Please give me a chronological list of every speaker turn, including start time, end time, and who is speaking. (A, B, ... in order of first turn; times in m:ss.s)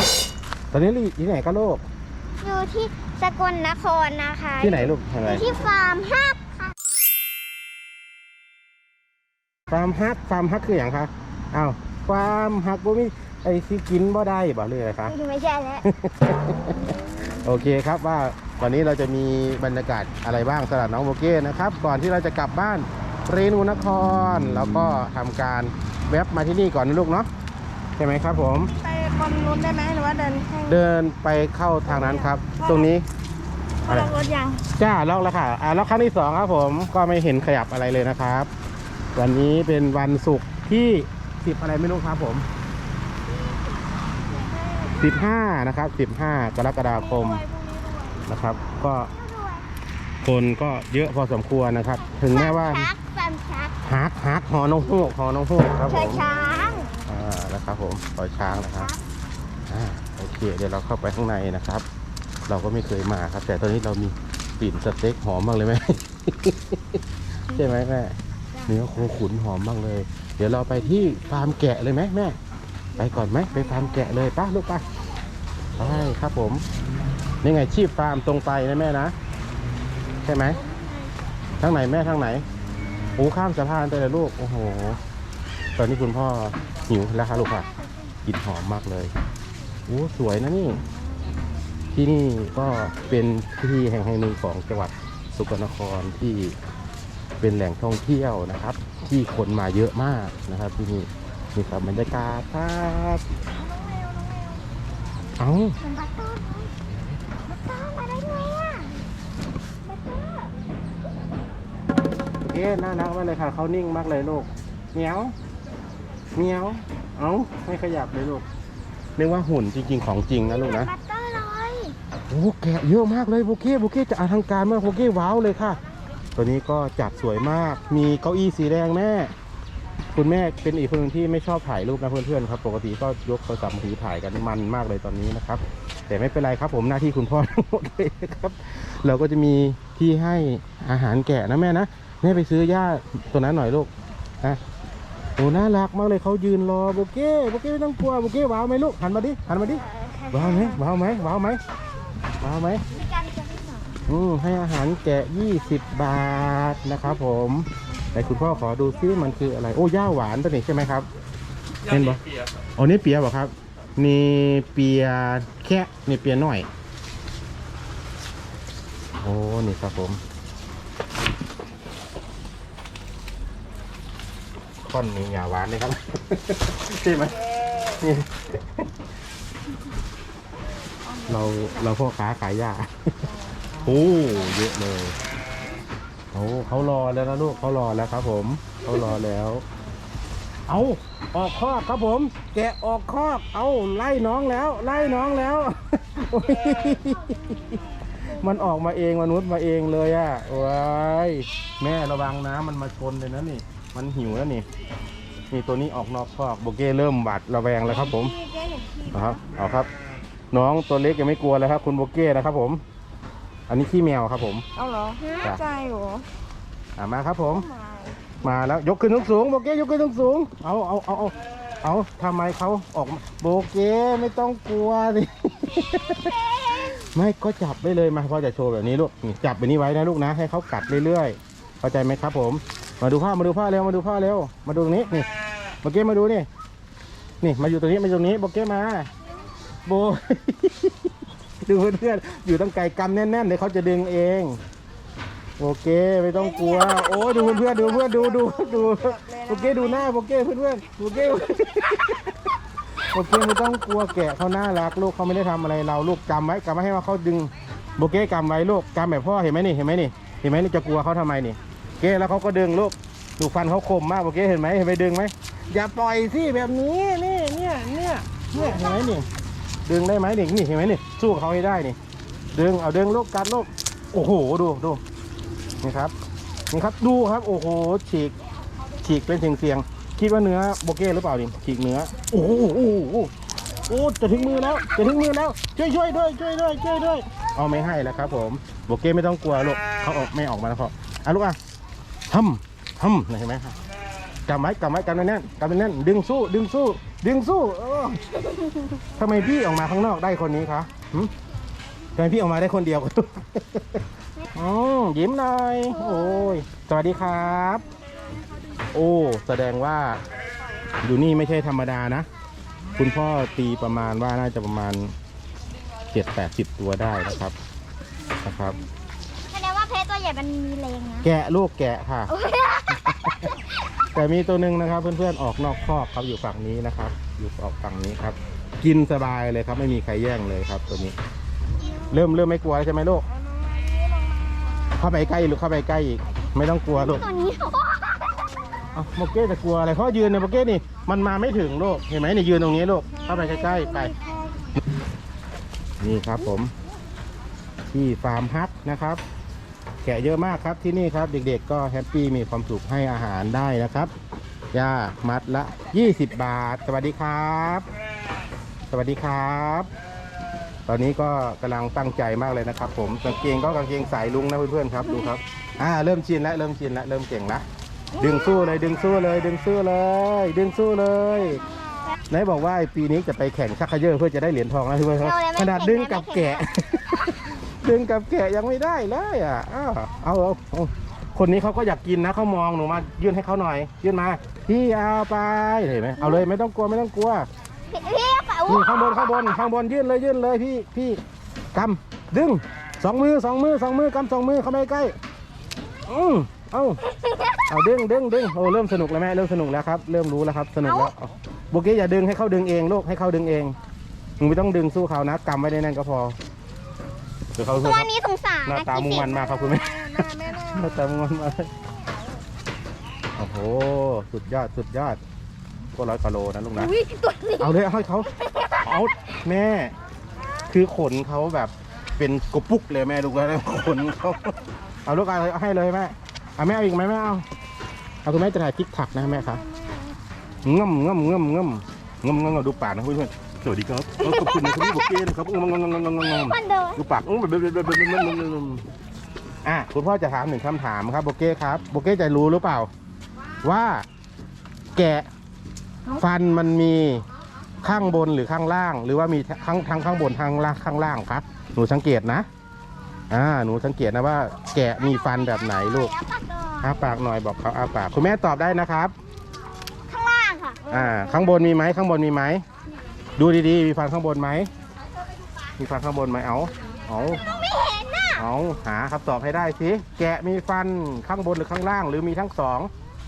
0:00.7-0:01.8 A
0:02.4-0:06.7 B
0:04.6-0:05.5 A
0:09.7-0:15.1 A
0:15.0-0:15.9 B
0:15.8-0:27.3 A
0:28.0-0:28.7 A
0:28.7-0:30.8 C
0:30.6-0:33.0 A
0:33.9-0:34.1 A
0:33.9-0:34.6 B
0:34.7-0:38.5 A
0:39.1-0:42.4 A
0:44.3-0:45.2 B
0:44.9-0:47.4 A
0:47.1-0:48.2 C
0:48.2-0:49.1 A
0:49.0-0:49.6 B
0:50.2-0:52.9 A
0:52.0-0:53.8 B
0:53.8-0:56.2 A
0:55.8-0:57.0 B
0:57.0-0:58.9 A
0:58.4-0:59.0 B
0:59.7-1:01.8 A
1:02.5-1:08.1 A
1:08.6-1:12.4 A
1:13.0-1:14.8 A
1:15.8-1:16.6 A
1:17.4-1:19.1 A
1:20.2-1:20.6 A
1:21.6-1:22.4 A
1:23.2-1:25.0 A
1:25.8-1:27.7 A
1:27.3-1:28.1 B
1:28.2-1:29.1 A
1:29.9-1:30.8 A
1:31.9-1:36.6 A
1:37.4-1:43.2 A
1:45.4-1:45.8 A
1:45.8-1:46.7 B
1:47.5-1:49.0 B
1:49.8-1:50.5 B
1:52.4-1:55.3 A
1:56.4-1:58.4 A
1:59.2-2:00.9 A
2:00.5-2:02.0 B
2:02.3-2:05.8 A
2:06.4-2:09.3 A
2:10.1-2:24.6 A
2:25.4-2:31.6 A
2:29.6-2:30.8 B
2:32.4-2:32.8 A
2:32.9-2:34.0 B
2:34.1-2:41.0 A
2:41.9-2:42.2 A
2:42.8-2:46.7 A
2:49.2-2:50.2 A
2:54.8-2:57.4 A
2:57.9-2:58.9 A
3:01.2-3:03.1 A
3:03.8-3:05.1 A
3:06.3-3:09.6 A
3:10.7-3:24.6 A
3:25.5-3:28.4 A
3:28.1-3:29.1 C
3:29.1-3:29.9 A
3:30.5-3:32.8 A
3:33.7-3:34.6 A
3:34.8-3:36.2 C
3:35.2-3:35.7 B
3:37.0-3:37.7 A
3:37.7-3:38.1 C
3:38.4-3:55.3 A
3:45.8-3:47.0 B
3:55.8-3:56.5 A
3:57.4-3:59.1 A
3:59.8-4:01.1 A
4:01.6-4:04.6 A
4:05.6-4:12.3 A
4:06.5-4:10.0 C
4:13.1-4:29.2 A
4:29.9-4:32.0 A
4:32.5-4:35.0 A
4:35.8-4:36.1 A
4:36.7-4:38.3 A
4:39.0-4:43.3 A
4:43.9-4:51.6 A
4:52.3-4:53.8 A
4:54.5-4:58.4 A
4:59.1-5:01.3 A
5:02.2-5:04.0 A
5:04.5-5:07.8 A
5:05.9-5:06.6 B
5:08.9-5:10.2 A
5:11.0-5:12.3 A
5:13.0-5:15.1 A
5:16.1-5:17.6 A
5:18.4-5:18.8 A
5:19.5-5:21.3 B
5:21.2-5:22.3 A
5:22.3-5:23.9 B
5:22.9-5:23.5 A
5:24.1-5:31.2 A
5:32.1-5:33.2 A
5:33.6-5:34.4 C
5:34.9-5:37.2 A
5:36.9-5:38.5 B
5:38.9-5:44.1 A
5:43.1-5:44.4 C
5:46.0-5:46.7 A
5:47.9-5:49.2 A
5:50.0-5:54.1 A
5:54.7-5:57.8 A
5:58.9-5:59.9 A
6:00.9-6:07.6 A
6:08.1-6:08.8 B
6:08.2-6:11.6 A
6:12.3-6:27.5 A
6:15.2-6:16.7 B
6:26.2-6:26.4 B
6:27.9-6:29.5 B
6:28.7-6:31.2 A
6:31.7-6:35.1 A
6:36.0-6:37.0 A
6:37.2-6:37.6 B
6:37.7-6:43.7 A
6:40.8-6:41.1 B
6:44.4-6:46.4 A
6:47.6-6:48.1 A
6:47.7-6:49.5 B
6:48.6-6:51.7 A
6:49.6-6:50.8 C
6:53.4-6:55.2 A
6:55.9-6:56.9 A
6:56.8-6:57.7 B
6:57.6-6:58.3 A
6:58.2-6:58.9 B
6:58.8-6:59.9 A
7:00.7-7:07.4 A
7:08.2-7:09.6 A
7:10.6-7:18.8 A
7:14.2-7:15.2 B
7:16.2-7:17.0 B
7:19.6-7:22.9 A
7:23.6-7:24.0 A
7:24.9-7:25.3 A
7:26.2-7:27.2 A
7:27.8-7:32.5 A
7:33.3-7:36.1 A
7:35.0-7:37.2 B
7:36.8-7:39.1 A
7:40.1-7:41.6 B
7:40.9-7:42.6 A
7:43.4-7:44.7 A
7:45.8-7:47.4 A
7:47.3-7:48.4 B
7:48.4-7:52.9 A